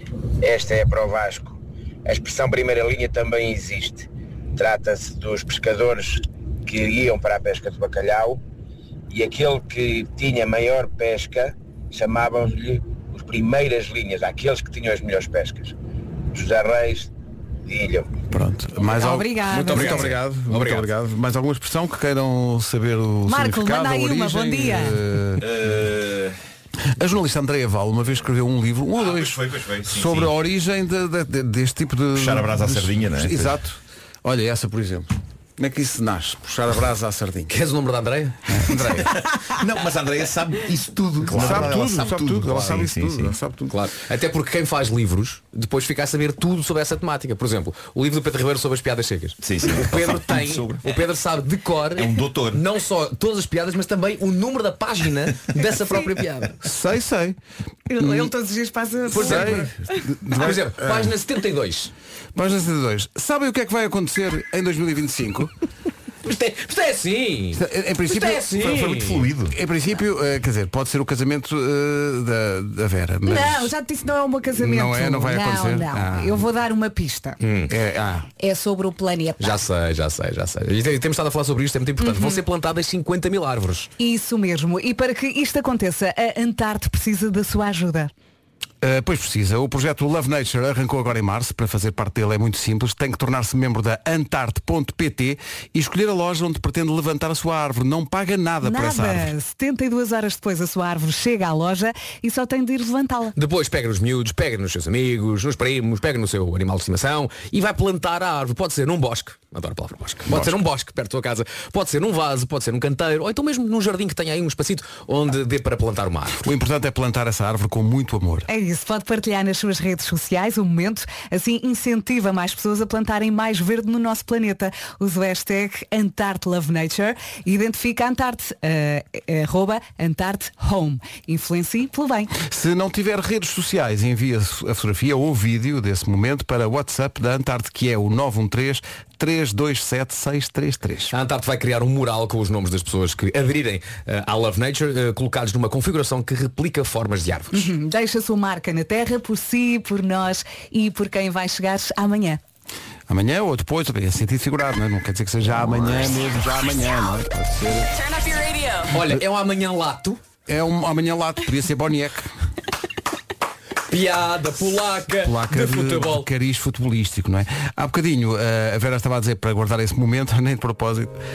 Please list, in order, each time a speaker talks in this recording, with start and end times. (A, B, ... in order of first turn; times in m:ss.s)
0:00.4-0:08.4 A
0:09.1-0:15.7 A
0:16.3-0:17.1 A
0:17.7-0:18.1 A
0:18.3-0:25.4 B
0:18.8-0:20.1 C
0:19.7-0:20.9 D
0:23.3-0:25.0 C
0:25.4-0:26.4 E
0:27.0-0:37.5 B
0:28.9-0:30.3 E
0:32.1-0:33.5 E
0:37.5-0:39.0 D
0:38.5-0:39.1 B
0:39.2-0:43.4 E
0:41.2-0:43.8 B
0:41.3-0:41.7 D
0:43.7-0:56.6 D
0:49.4-0:50.8 E
0:52.0-0:52.6 E
0:56.6-0:57.4 B
0:57.9-1:00.0 C
0:58.0-0:58.3 B
0:59.1-1:01.1 B
0:59.2-0:59.6 D
1:00.3-1:01.9 D
1:02.3-1:05.5 B
1:06.2-1:09.3 D
1:07.5-1:08.6 B
1:08.6-1:09.5 E
1:09.5-1:13.7 B
1:13.2-1:17.4 C
1:14.6-1:16.4 B
1:17.4-1:17.7 D
1:17.7-1:18.3 B
1:18.4-1:19.6 C
1:19.4-1:23.9 D
1:22.0-1:22.4 C
1:24.0-1:28.1 C
1:28.8-1:39.3 B
1:38.6-1:43.3 C
1:43.4-1:56.4 D
1:56.4-1:58.5 B
1:58.5-2:12.3 C
2:12.4-2:21.1 B
2:21.1-2:27.7 D
2:27.5-2:32.4 C
2:33.1-2:38.0 B
2:38.9-2:40.2 D
2:40.5-2:42.3 B
2:43.9-2:46.3 D
2:45.2-2:51.1 B